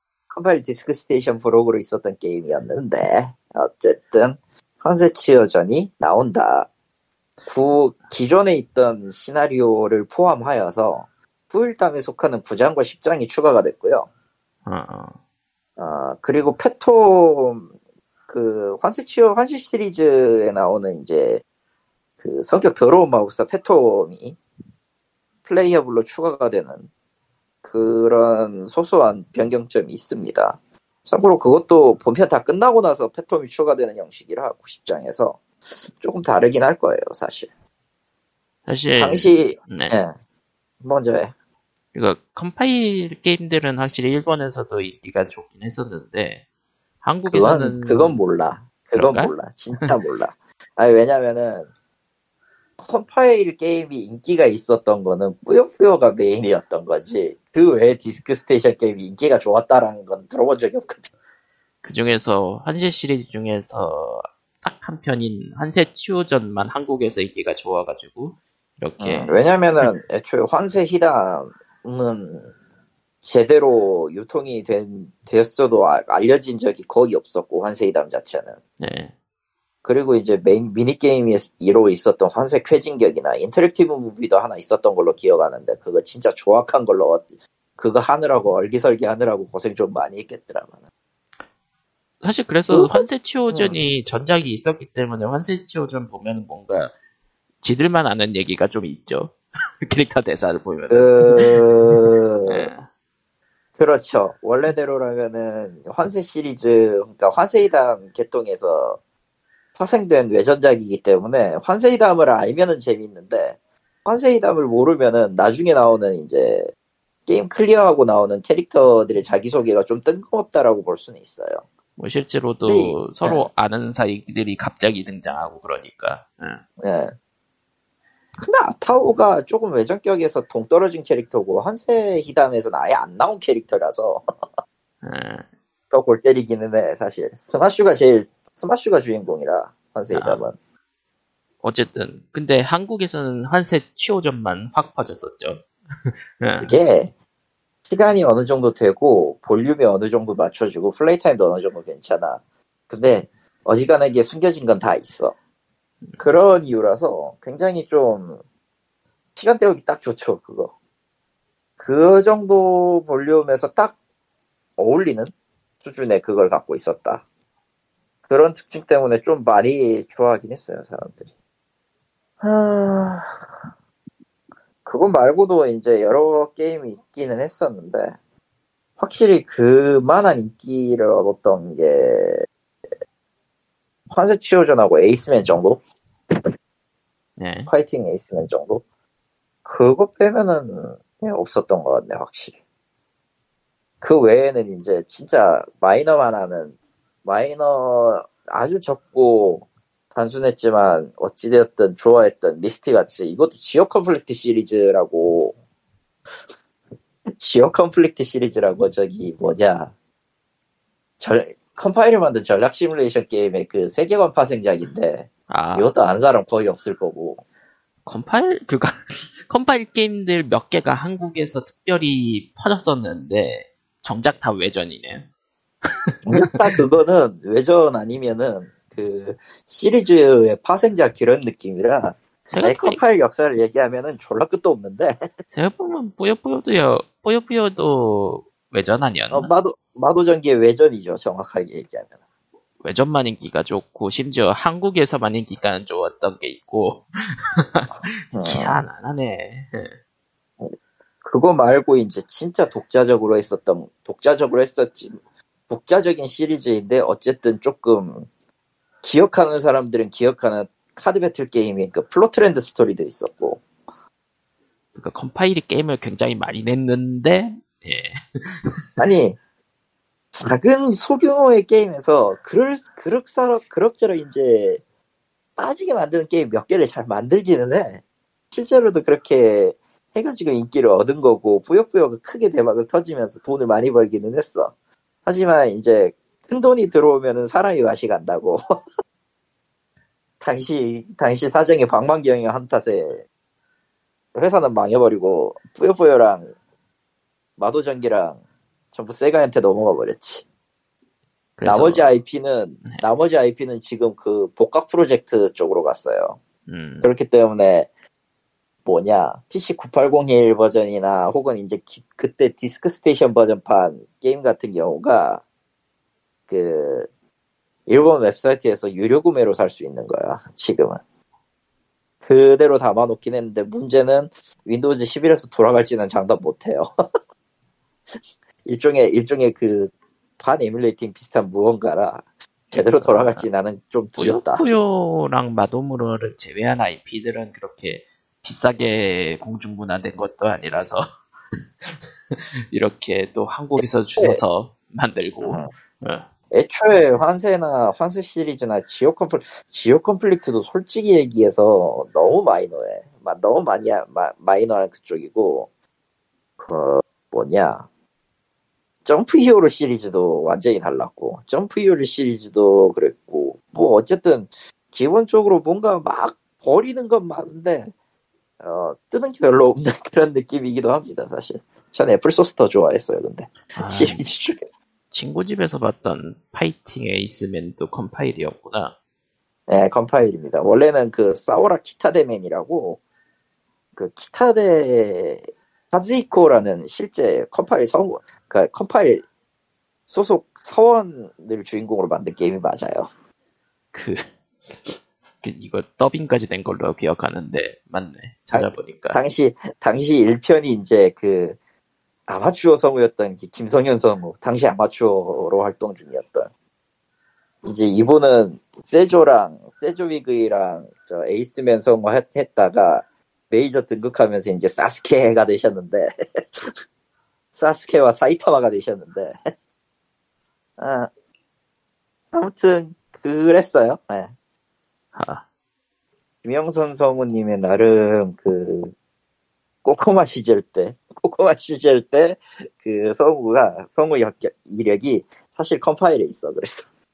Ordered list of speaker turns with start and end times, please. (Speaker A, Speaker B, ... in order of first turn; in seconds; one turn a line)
Speaker A: 0.3-6.7
Speaker A: 7.5-14.1
Speaker B: 14.7-15.2
Speaker A: 15.8-17.7
Speaker A: 18.3-21.4
Speaker A: 22.2-24.4
Speaker A: 25.5-26.9
Speaker A: 27.6-37.5
Speaker B: 38.7-40.0
Speaker A: 39.0-40.1
Speaker A: 40.8-41.3
Speaker B: 41.9-46.4
Speaker B: 47.0-48.2
Speaker A: 47.3-51.7
Speaker B: 48.9-49.9
Speaker A: 52.8-61.1
Speaker B: 61.8-69.9
Speaker A: 69.0-72.5
Speaker A: 73.2-78.6
Speaker B: 78.8-79.1
Speaker A: 79.8-90.8
Speaker B: 92.2-96.9
Speaker A: 92.7-93.8
Speaker B: 97.6-102.9
Speaker A: 100.9-102.7
Speaker A: 103.8-109.0
Speaker A: 109.8-116.7
Speaker A: 117.3-121.7
Speaker B: 122.0-126.6
Speaker A: 122.7-123.5
Speaker A: 126.8-127.1
Speaker A: 128.4-134.2
Speaker B: 135.0-135.5
Speaker A: 135.9-140.6
Speaker B: 140.1-140.4
Speaker B: 141.6-146.8
Speaker A: 146.6-147.1
Speaker A: 147.9-155.3
Speaker A: 156.2-158.4
Speaker A: 159.4-160.7
Speaker A: 161.8-164.0
Speaker A: 164.8-167.2
Speaker A: 168.3-171.3
Speaker A: 172.4-173.4
Speaker A: 174.8-178.2
Speaker A: 179.0-182.5
Speaker A: 184.1-185.8
Speaker B: 187.4-187.7
Speaker A: 187.7-188.8
Speaker A: 189.7-192.6
Speaker A: 194.0-205.6
Speaker A: 207.3-209.9
Speaker A: 211.2-217.4
Speaker B: 215.5-215.9
Speaker B: 218.1-225.3
Speaker B: 225.8-226.5
Speaker A: 226.3-235.3
Speaker B: 232.5-233.0
Speaker B: 235.5-239.5
Speaker A: 239.3-242.1
Speaker B: 242.8-249.9
Speaker A: 248.3-248.8
Speaker A: 250.6-255.2
Speaker A: 255.7-258.3
Speaker A: 259.0-263.7
Speaker B: 264.9-268.8
Speaker A: 269.0-269.4
Speaker A: 270.3-274.8
Speaker A: 275.6-284.7
Speaker A: 285.3-288.6
Speaker A: 290.4-293.2
Speaker A: 294.4-296.5
Speaker A: 297.6-298.4
Speaker A: 298.9-300.4
Speaker B: 301.6-302.1
Speaker A: 301.7-306.4
Speaker B: 306.7-307.1
Speaker A: 307.0-307.9
Speaker A: 308.9-315.4
Speaker A: 316.5-317.1
Speaker A: 317.9-321.0
Speaker A: 322.2-326.9
Speaker A: 328.6-334.7
Speaker B: 332.7-333.5
Speaker B: 334.2-341.1
Speaker B: 341.8-346.3
Speaker A: 345.4-345.7
Speaker A: 346.5-355.7
Speaker A: 356.6-357.9
Speaker A: 359.1-367.9
Speaker A: 368.6-374.6
Speaker B: 373.8-374.2
Speaker B: 375.1-378.9
Speaker A: 379.7-383.0
Speaker A: 384.0-389.2
Speaker A: 390.1-393.1
Speaker B: 393.9-399.2
Speaker A: 398.5-401.6
Speaker A: 402.3-406.5
Speaker A: 407.6-416.8
Speaker A: 417.6-419.4
Speaker A: 420.8-421.1
Speaker A: 422.3-424.3
Speaker B: 425.1-425.4
Speaker A: 426.4-428.9
Speaker A: 429.8-436.9